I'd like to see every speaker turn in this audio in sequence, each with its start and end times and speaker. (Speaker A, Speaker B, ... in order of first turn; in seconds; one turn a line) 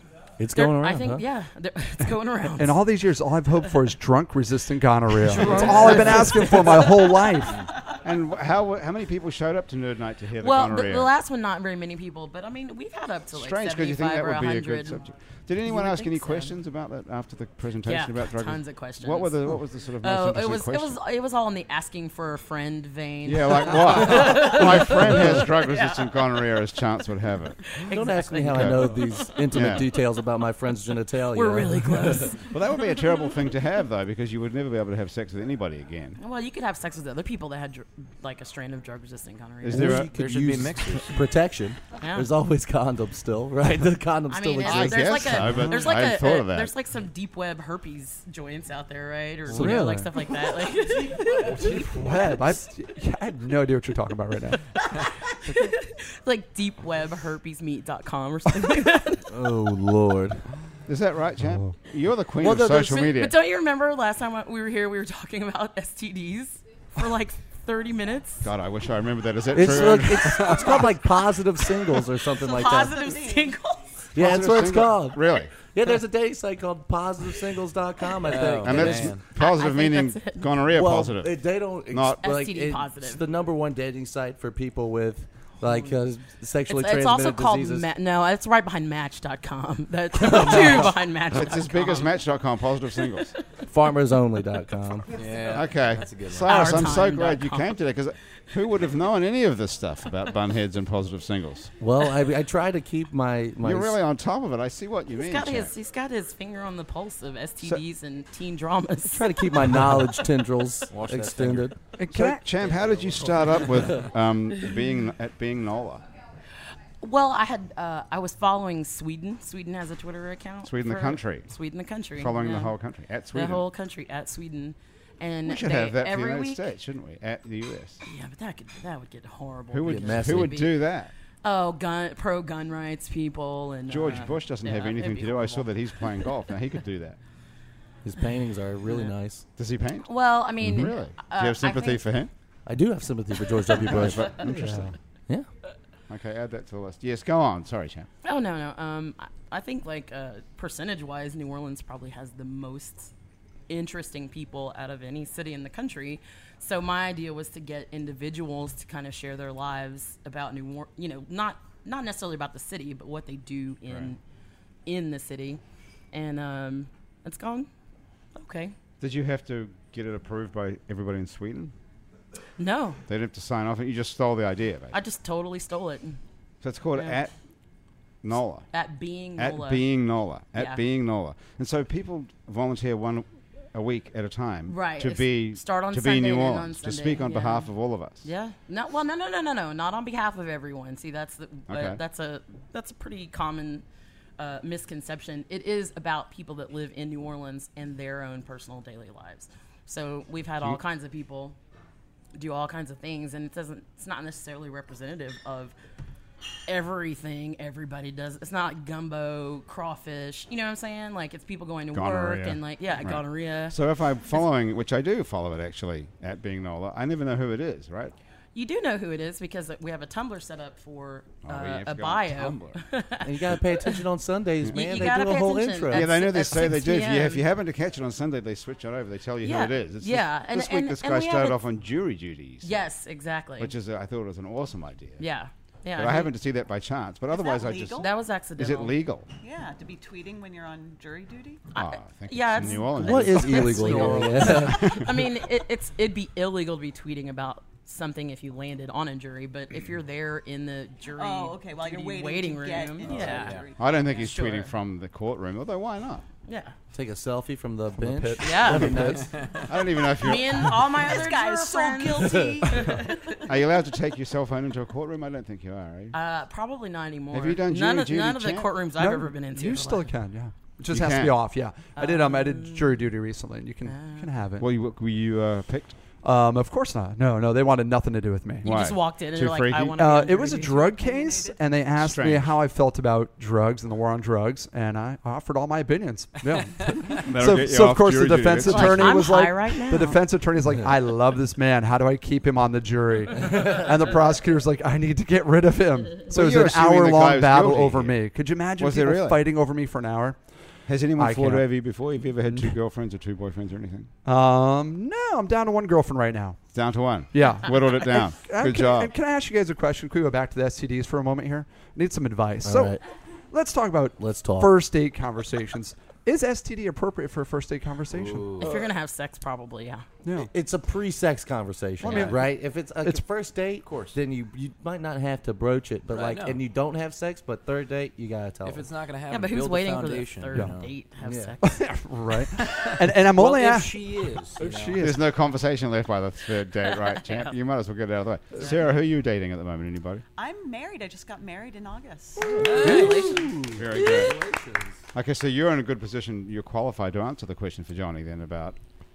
Speaker A: 0.4-1.2
Speaker B: 0.5-2.8
Speaker C: 2.6-7.6
Speaker B: 5.3-6.8
Speaker A: 5.4-6.4
Speaker D: 8.0-11.1
Speaker B: 10.4-15.0
Speaker D: 13.3-21.0
Speaker B: 15.7-16.5
Speaker B: 17.8-26.4
Speaker D: 23.2-27.7
Speaker B: 27.6-29.4
Speaker A: 27.9-32.3
Speaker D: 28.5-28.9
Speaker D: 29.5-29.8
Speaker B: 31.3-33.0
Speaker D: 32.5-36.2
Speaker B: 36.2-40.0
Speaker D: 39.6-40.1
Speaker A: 39.7-45.6
Speaker E: 39.8-41.3
Speaker B: 42.0-42.3
Speaker B: 44.3-51.9
Speaker D: 44.6-46.7
Speaker A: 49.5-50.1
Speaker C: 49.5-49.9
Speaker C: 51.4-54.8
Speaker A: 51.4-52.1
Speaker B: 54.9-59.3
Speaker A: 59.3-60.4
Speaker D: 60.9-63.4
Speaker A: 62.4-63.0
Speaker B: 62.9-68.5
Speaker D: 68.4-70.9
Speaker A: 69.5-73.0
Speaker B: 72.4-74.0
Speaker F: 72.4-73.6
Speaker A: 74.1-79.2
Speaker D: 74.2-75.5
Speaker E: 78.2-79.3
Speaker D: 78.6-81.4
Speaker B: 79.3-80.6
Speaker A: 80.7-87.9
Speaker D: 81.9-82.2
Speaker B: 82.2-83.2
Speaker B: 86.7-92.1
Speaker A: 90.2-90.7
Speaker D: 91.3-93.3
Speaker A: 93.7-95.1
Speaker E: 95.1-96.9
Speaker D: 95.5-101.7
Speaker B: 96.4-97.7
Speaker A: 101.8-104.0
Speaker D: 103.6-105.7
Speaker B: 105.1-109.5
Speaker A: 109.1-111.7
Speaker E: 110.9-111.8
Speaker C: 112.0-112.4
Speaker D: 112.1-116.0
Speaker E: 112.7-114.0
Speaker B: 117.0-122.7
Speaker D: 120.6-121.5
Speaker D: 122.1-123.6
Speaker B: 123.3-126.6
Speaker D: 125.4-128.0
Speaker B: 128.0-130.8
Speaker D: 129.7-131.1
Speaker A: 129.8-130.6
Speaker B: 131.4-136.3
Speaker D: 133.9-137.2
Speaker A: 138.0-139.4
Speaker D: 139.6-142.3
Speaker B: 140.0-142.0
Speaker A: 142.7-145.5
Speaker D: 143.8-144.8
Speaker C: 144.4-144.9
Speaker D: 146.1-148.1
Speaker B: 148.2-153.1
Speaker B: 153.7-164.2
Speaker B: 164.8-165.6
Speaker B: 166.1-167.7
Speaker B: 168.3-168.7
Speaker D: 169.0-171.7
Speaker B: 172.6-173.0
Speaker D: 173.1-175.0
Speaker B: 174.9-176.2
Speaker D: 176.6-177.3
Speaker B: 176.9-177.2
Speaker D: 178.2-178.7
Speaker B: 178.7-179.8
Speaker D: 179.4-188.3
Speaker B: 184.7-187.7
Speaker B: 188.2-193.8
Speaker D: 191.7-192.0
Speaker B: 194.4-201.6
Speaker B: 202.3-205.7
Speaker B: 206.7-213.8
Speaker D: 211.9-218.1
Speaker B: 218.5-224.0
Speaker D: 221.4-222.8
Speaker A: 223.2-226.1
Speaker B: 224.7-227.4
Speaker D: 225.9-232.8
Speaker B: 229.4-231.6
Speaker B: 232.6-233.7
Speaker D: 233.6-235.2
Speaker B: 235.2-236.3
Speaker D: 235.9-239.3
Speaker F: 237.3-238.1
Speaker B: 238.0-238.9
Speaker F: 239.4-241.7
Speaker B: 241.7-254.7
Speaker D: 241.8-245.2
Speaker A: 242.9-245.0
Speaker E: 243.9-244.5
Speaker F: 251.1-254.3
Speaker E: 253.1-253.7
Speaker D: 253.7-256.2
Speaker B: 256.5-256.7
Speaker A: 256.9-259.3
Speaker C: 258.0-259.3
Speaker B: 258.4-259.2
Speaker E: 259.3-259.6
Speaker D: 259.6-260.8
Speaker B: 260.1-263.4
Speaker F: 260.9-263.6
Speaker D: 263.4-266.1
Speaker B: 266.1-270.1
Speaker D: 267.3-268.7
Speaker C: 269.0-274.7
Speaker D: 270.9-271.3
Speaker B: 272.0-273.0
Speaker B: 273.9-274.3
Speaker D: 274.6-276.0
Speaker C: 276.2-278.7
Speaker B: 278.6-280.8
Speaker D: 278.6-280.0
Speaker C: 280.0-300.4
Speaker F: 280.6-281.8
Speaker D: 282.0-282.6
Speaker D: 287.2-289.2
Speaker B: 288.6-290.2
Speaker D: 296.3-298.2
Speaker D: 298.8-299.4
Speaker D: 300.9-304.1
Speaker C: 301.2-301.7
Speaker C: 304.2-306.6
Speaker D: 306.7-309.1
Speaker C: 307.3-313.0
Speaker A: 312.6-313.0
Speaker C: 313.5-318.5
Speaker A: 314.2-314.7
Speaker E: 318.1-318.9
Speaker B: 318.6-320.0
Speaker C: 320.2-320.5
Speaker A: 320.3-328.9
Speaker C: 322.0-322.5
Speaker E: 322.0-322.4
Speaker E: 323.8-324.2
Speaker E: 326.1-326.6
Speaker E: 328.6-330.9
Speaker B: 329.3-331.8
Speaker A: 331.2-331.5
Speaker C: 331.6-335.2
Speaker E: 332.6-335.1
Speaker D: 335.0-340.2
Speaker B: 337.1-337.5
Speaker F: 340.4-342.6
Speaker E: 342.5-344.9
Speaker C: 342.6-343.4
Speaker B: 342.8-343.4
Speaker D: 343.7-344.4
Speaker D: 345.1-348.8